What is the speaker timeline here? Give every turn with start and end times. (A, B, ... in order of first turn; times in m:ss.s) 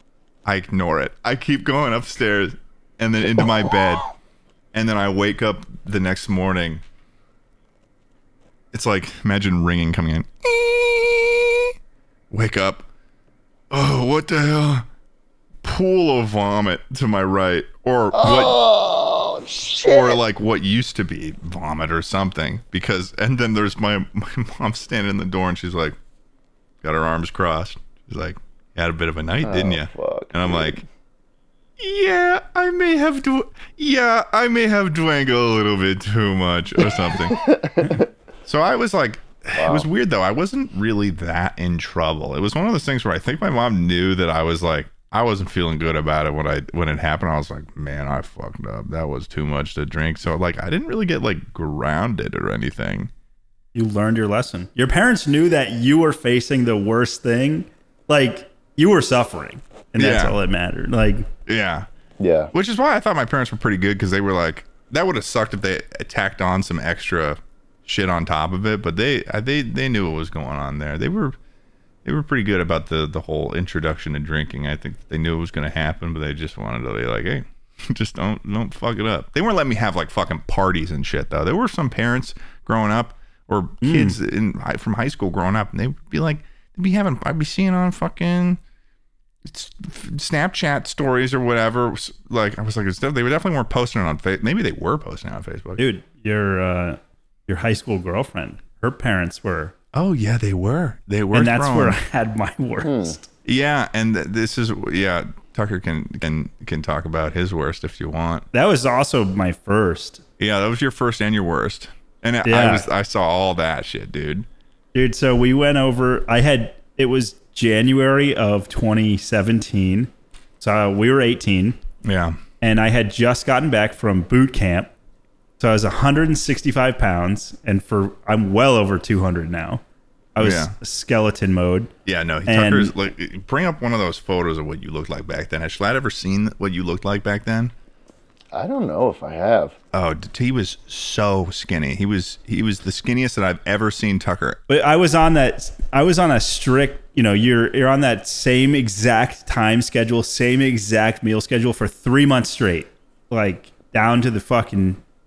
0:00.4-0:04.1 A
0:04.7-0:06.8 A
0:08.7-0:11.7 A
0:12.3-0:12.9 A
0:13.7-0:14.9 A
0:15.6-0:18.6 A
0:18.1-0:20.2 B
0:19.9-0:26.0 A
0:26.8-0:30.8 A
0:29.4-0:30.8 B
0:31.8-0:37.4 A
0:37.0-0:38.1 B
0:38.4-0:53.1 A
0:39.6-0:39.9 B
0:53.7-1:01.3 C
1:00.0-1:00.4 A
1:01.5-1:01.9 A
1:02.2-1:02.5 B
1:02.5-1:11.3 A
1:12.0-1:28.6 A
1:23.8-1:24.2 C
1:29.4-1:35.8 A
1:35.8-1:39.7 C
1:39.9-1:42.0 A
1:41.3-1:43.3 C
1:42.8-1:43.2 B
1:43.4-1:48.4 A
1:48.5-1:50.2 C
1:50.4-1:54.4 A
1:52.4-1:52.9 C
1:54.9-2:01.8 C
2:02.0-2:02.4 A
2:02.6-2:04.9 C
2:05.6-2:09.8 C
2:10.4-2:11.9 C
2:10.4-2:10.7 A
2:12.0-2:17.7 A
2:12.5-2:12.9 C
2:18.5-2:19.8 B
2:19.9-2:24.6 A
2:24.7-2:35.0 C